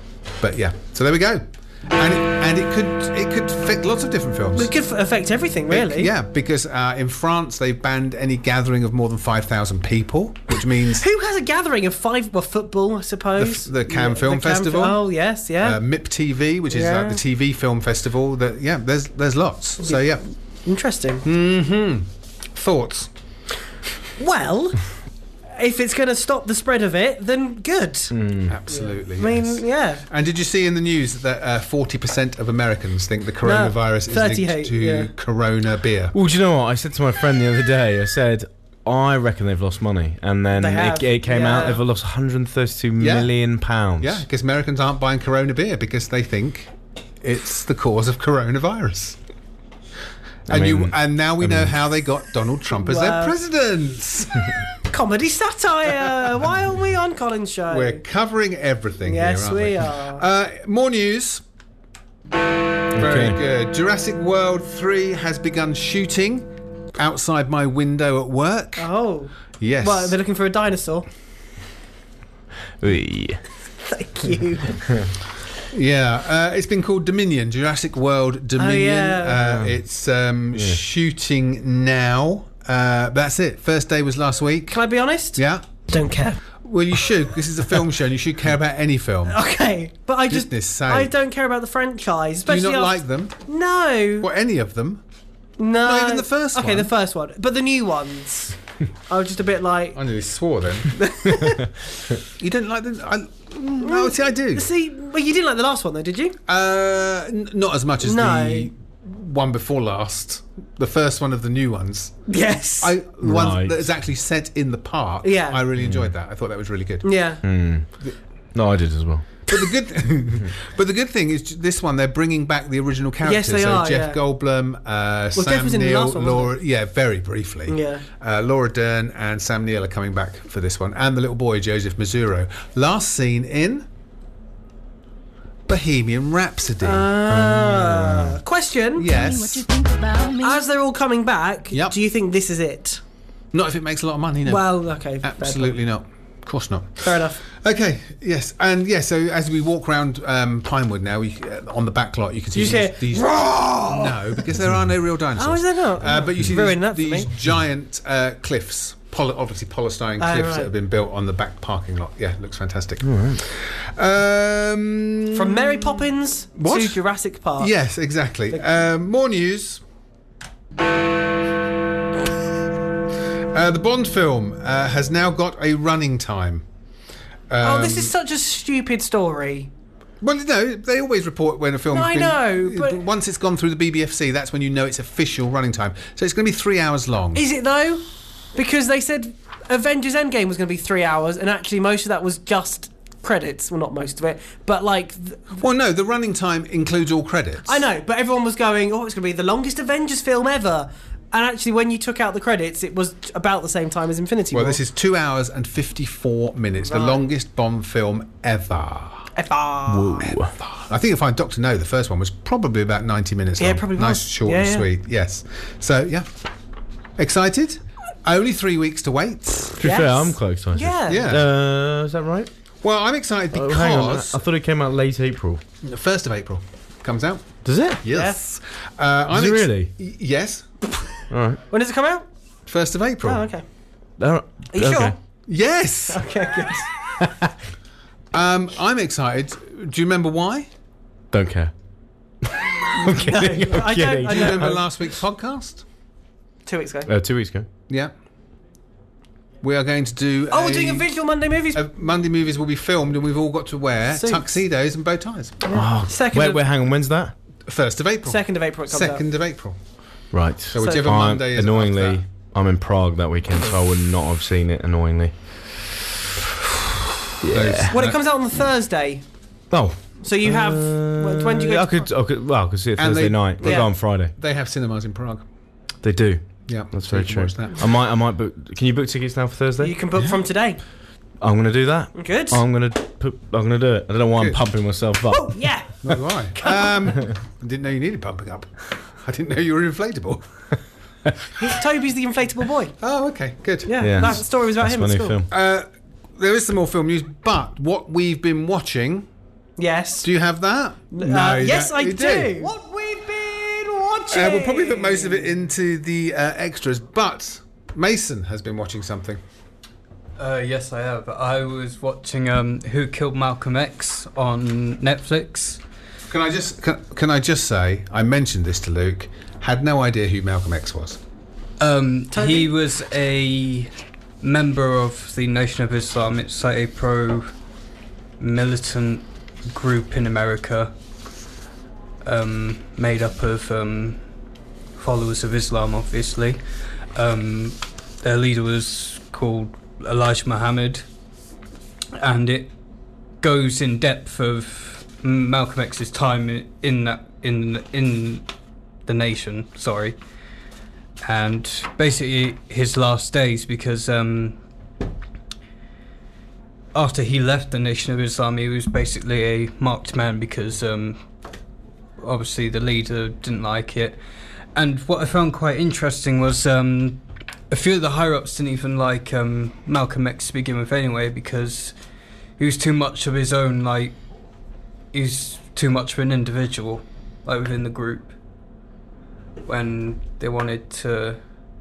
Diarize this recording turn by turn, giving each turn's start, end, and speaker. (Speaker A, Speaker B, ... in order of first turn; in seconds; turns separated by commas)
Speaker A: 0.4-4.7, Speaker B: 4.6-6.1, Speaker A: 5.7-11.1, Speaker B: 10.9-15.8, Speaker A: 13.4-15.1, Speaker A: 15.6-20.2, Speaker B: 16.7-17.2, Speaker B: 20.7-21.2, Speaker A: 21.2-23.1, Speaker B: 24.2-24.8, Speaker B: 25.5-28.1, Speaker C: 28.1-28.6, Speaker A: 28.5-36.1, Speaker B: 28.7-30.0, Speaker B: 33.4-35.1, Speaker C: 36.1-44.2, Speaker B: 40.6-41.8, Speaker A: 43.0-43.4, Speaker A: 44.0-49.2, Speaker A: 50.5-54.5, Speaker C: 50.5-51.7, Speaker B: 52.8-53.4, Speaker B: 54.9-58.0, Speaker A: 57.7-61.4, Speaker B: 59.0-60.2, Speaker A: 62.9-68.9, Speaker C: 63.0-63.4, Speaker B: 68.8-71.1, Speaker A: 69.6-70.2, Speaker C: 72.8-73.4, Speaker B: 73.9-74.8, Speaker A: 75.7-84.8, Speaker B: 78.6-79.4, Speaker C: 79.4-79.8, Speaker C: 80.5-80.8, Speaker B: 84.7-86.4, Speaker A: 85.3-85.7, Speaker A: 86.6-89.4, Speaker B: 89.3-94.3, Speaker A: 90.3-91.2, Speaker A: 92.5-93.4, Speaker A: 94.2-95.0, Speaker B: 95.6-98.6, Speaker A: 95.8-96.9, Speaker B: 99.1-100.0, Speaker A: 100.0-101.0, Speaker B: 101.0-101.7, Speaker A: 102.4-104.7, Speaker B: 103.8-106.4, Speaker A: 106.5-112.2, Speaker B: 108.0-108.7, Speaker B: 112.3-113.0, Speaker A: 112.8-117.2, Speaker C: 113.2-113.9, Speaker B: 115.2-115.6, Speaker C: 115.8-116.1, Speaker B: 117.0-117.4, Speaker C: 117.4-117.9, Speaker C: 118.5-119.2, Speaker A: 119.5-133.9, Speaker B: 123.2-124.2, Speaker B: 125.4-126.5, Speaker B: 127.7-128.0, Speaker A: 135.7-137.2, Speaker B: 136.8-139.1, Speaker A: 139.0-139.7, Speaker B: 140.3-143.0, Speaker A: 141.7-142.0, Speaker A: 143.5-167.0, Speaker B: 144.5-145.8, Speaker B: 147.0-147.4, Speaker B: 152.5-154.4, Speaker B: 155.4-157.3, Speaker B: 160.2-160.7, Speaker C: 163.0-163.4, Speaker B: 165.3-167.7, Speaker A: 167.6-169.8, Speaker A: 173.5-176.7, Speaker A: 177.5-178.1, Speaker B: 177.6-179.7, Speaker A: 180.2-187.4, Speaker B: 181.9-183.0, Speaker B: 187.3-188.0, Speaker B: 188.6-195.6, Speaker A: 195.6-197.8, Speaker B: 197.7-204.8, Speaker A: 204.5-209.3, Speaker B: 206.8-207.2, Speaker B: 209.4-210.3, Speaker C: 209.9-210.5, Speaker A: 210.3-216.3, Speaker B: 213.6-214.9, Speaker A: 217.2-219.8, Speaker C: 219.8-222.5, Speaker B: 219.8-221.3, Speaker A: 221.1-221.5, Speaker A: 222.8-224.4, Speaker C: 223.5-225.6, Speaker A: 225.8-230.7, Speaker C: 227.6-228.0, Speaker B: 228.1-228.6, Speaker C: 229.3-229.9, Speaker C: 231.3-231.6, Speaker B: 231.7-232.3, Speaker A: 232.7-233.5, Speaker B: 233.2-233.6, Speaker C: 234.2-235.2, Speaker B: 234.7-235.2, Speaker A: 235.5-236.3, Speaker B: 236.1-236.9, Speaker C: 237.2-237.5, Speaker A: 238.3-240.7, Speaker C: 241.3-241.7, Speaker C: 242.4-244.8, Speaker B: 243.3-244.8, Speaker A: 244.3-245.8, Speaker B: 246.7-247.1, Speaker C: 247.1-247.7, Speaker A: 249.6-251.1, Speaker B: 250.5-251.8, Speaker A: 251.7-255.6, Speaker B: 254.1-254.4, Speaker B: 255.6-256.6, Speaker C: 255.7-257.3, Speaker A: 257.7-259.8, Speaker B: 258.3-259.2, Speaker C: 260.3-265.3, Speaker A: 260.7-262.2, Speaker B: 260.8-261.0, Speaker C: 267.4-267.9, Speaker A: 267.5-268.2, Speaker B: 267.9-269.2, Speaker C: 269.7-274.3, Speaker B: 270.2-272.1, Speaker A: 273.0-275.4, Speaker B: 273.6-273.9, Speaker C: 276.0-279.9, Speaker A: 276.7-277.9, Speaker B: 279.8-280.8, Speaker C: 281.4-285.6, Speaker B: 282.1-282.6, Speaker B: 285.3-287.1, Speaker A: 286.0-290.4, Speaker B: 291.6-292.9, Speaker A: 293.0-294.4, Speaker B: 293.9-295.4, Speaker C: 294.0-295.5, Speaker A: 295.5-299.3, Speaker B: 299.8-300.3, Speaker A: 300.2-302.7, Speaker B: 301.1-305.5, Speaker A: 304.3-309.4, Speaker D: 310.4-315.8, Speaker A: 316.2-321.2, Speaker D: 321.8-327.5, Speaker B: 322.3-322.7, Speaker D: 328.4-330.9, Speaker D: 332.2-334.2, Speaker D: 335.0-341.1, Speaker D: 342.1-342.7, Speaker D: 343.4-348.5, Speaker D: 349.1-350.2, Speaker D: 351.2-354.6, Speaker D: 356.9-361.2, Speaker D: 362.2-364.2, Speaker D: 364.7-371.9, Speaker D: 372.6-374.2, Speaker D: 375.1-378.3, Speaker D: 379.6-381.4